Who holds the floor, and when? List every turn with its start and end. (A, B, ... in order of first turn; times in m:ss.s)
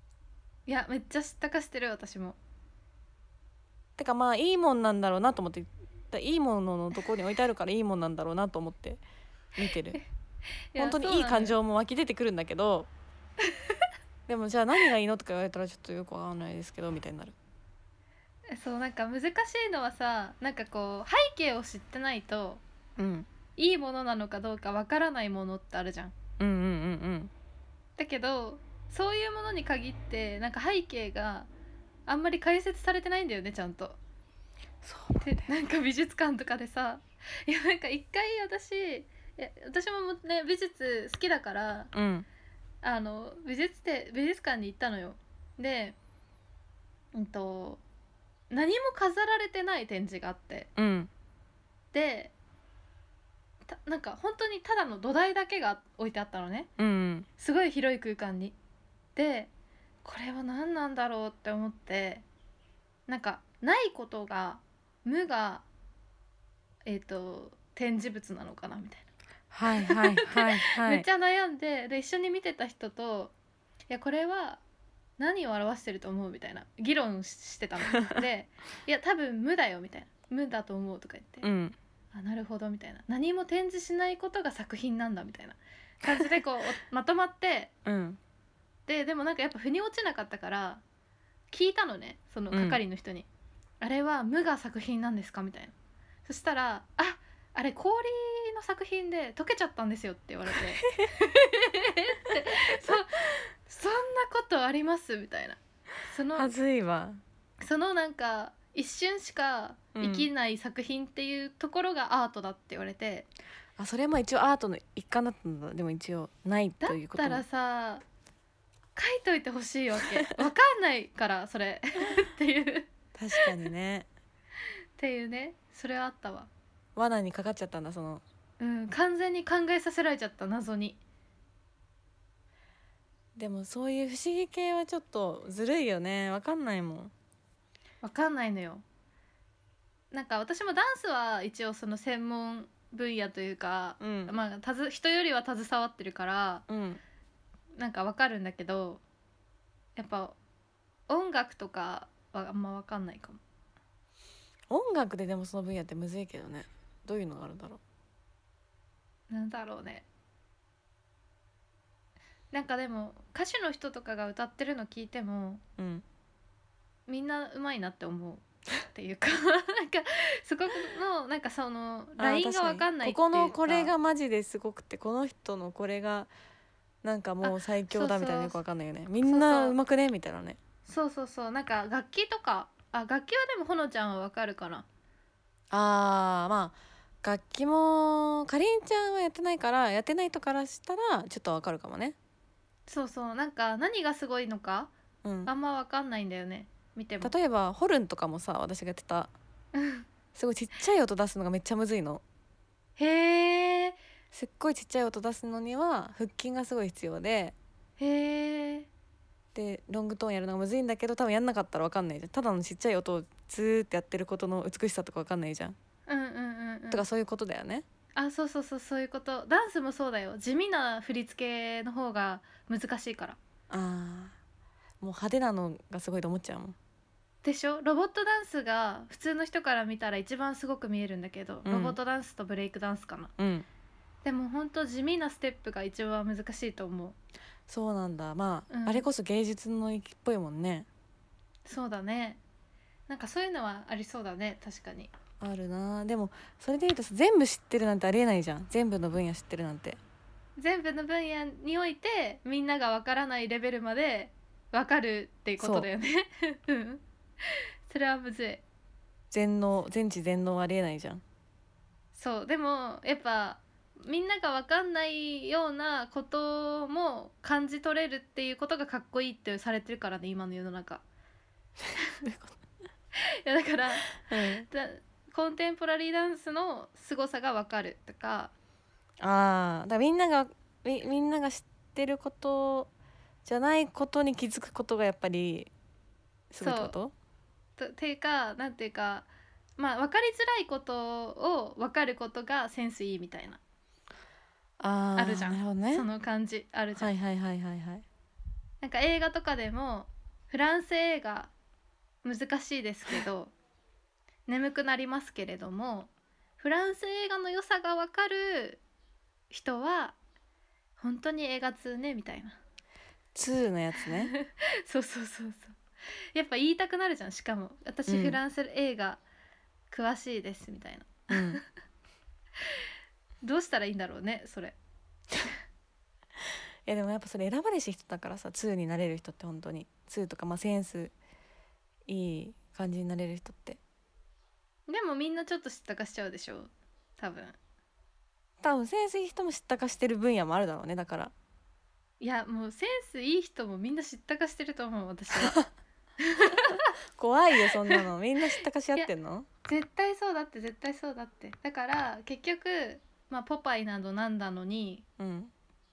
0:00.7-0:02.4 A
0:04.0-0:09.0 B
0:09.6-0:10.0 B
0:10.7-0:11.6 A
0:10.8-0:12.9 B
0:13.5-0:13.8 A
0:14.3-0:17.3 B
0:18.5-0:22.6 A
0:23.0-0:23.3 B
0:23.6-0:26.2 A
0:26.4-0:27.3 B
0:28.0-0:31.5 A
0:32.1-0:34.0 A
0:34.8-0:35.5 B
0:35.2-0:41.9 A
0:41.9-0:42.2 B
0:42.8-0:46.0 A
0:47.1-0:47.8 A
0:48.5-0:50.7 A
0:50.8-0:51.1 B
0:51.9-0:52.3 A
0:53.7-0:56.7 A
0:56.8-0:57.3 B
0:57.4-0:58.5 A
0:59.2-0:59.5 A
1:00.0-1:02.2 A
1:03.1-1:05.6 A
1:06.8-1:09.1 A
1:09.5-1:11.0 B
1:09.7-1:13.3 A
1:13.9-1:14.6 A
1:15.2-1:21.5 A
1:21.4-1:21.7 B
1:22.1-1:27.7 A
1:27.8-1:28.2 B
1:28.9-1:30.8 A
1:31.5-1:33.3 A
1:32.5-1:32.8 B
1:33.8-1:35.7 A
1:36.2-1:46.5 A
1:46.3-1:47.2 B
1:47.6-1:53.3 A
1:50.0-1:50.3 B
1:53.8-1:57.4 B
1:56.8-1:58.0 A
1:59.0-2:03.5 A
2:03.1-2:04.1 B
2:05.0-2:06.5 A
2:07.0-2:08.2 B
2:08.6-2:11.0 A
2:13.4-2:17.1 B
2:18.0-2:18.8 A
2:20.1-2:26.6 A
2:24.0-2:24.3 B
2:26.7-2:27.0 B
2:27.8-2:29.0 A
2:30.0-2:30.4 A
2:31.1-2:33.4 A
2:34.7-2:37.8 B
2:39.3-2:40.0 A
2:42.5-2:45.6 A
2:45.8-2:46.0 B
2:47.1-2:53.9 A
2:52.2-2:56.3 B
2:57.0-3:00.6 B
2:57.4-2:58.6 A
2:59.2-2:59.8 A
3:00.8-3:04.8 A
3:05.7-3:12.2 B
3:12.9-3:14.9 A
3:15.2-3:15.5 B
3:15.4-3:17.3 A
3:17.2-3:19.3 B
3:19.7-3:20.1 A
3:20.3-3:22.2 B
3:23.0-3:24.0 A
3:24.3-3:27.5 B
3:28.0-3:28.9 A
3:29.5-3:35.8 B
3:36.1-3:37.0 A
3:36.9-3:37.8 B
3:38.2-3:43.4 A
3:43.7-3:44.4 B
3:45.0-3:46.8 B
3:47.4-3:53.3 A
3:51.6-3:52.0 B
3:53.4-3:53.6 B
3:54.2-3:57.2 A
3:57.7-4:00.9 B
3:58.7-3:59.0 A
4:01.6-4:02.4 A
4:03.1-4:05.1 A
4:05.4-4:10.0 B
4:10.6-4:18.6 A
4:15.6-4:15.9 B
4:19.3-4:21.2 B
4:22.1-4:31.0 A
4:32.2-4:32.6 B
4:33.4-4:38.5 A
4:34.2-4:34.7 B
4:39.2-4:42.9 B
4:43.4-4:45.7 B
4:46.5-4:47.1 B
4:46.6-4:47.0 A
4:47.8-4:53.6 A
4:54.8-4:56.0 B
4:55.2-4:57.1 A
4:57.0-4:58.0 B
4:58.8-5:01.5 A
5:02.2-5:03.5 A
5:04.5-5:08.8 A
5:09.5-5:10.2 A
5:11.0-5:12.6 A
5:13.3-5:14.3 B
5:14.2-5:15.8 A
5:16.3-5:19.2 A
5:18.1-5:18.4 B
5:19.9-5:21.6 A
5:21.3-5:21.6 B
5:23.4-5:24.8 A
5:26.8-5:31.1 B
5:32.1-5:33.8 B
5:34.9-5:37.6 A
5:38.6-5:41.3 B
5:42.2-5:45.6 A
5:45.3-5:45.6 B
5:46.2-5:46.9 A
5:47.2-5:49.5 B
5:47.6-5:48.0 A
5:49.6-5:55.0 A
5:55.2-5:55.5 B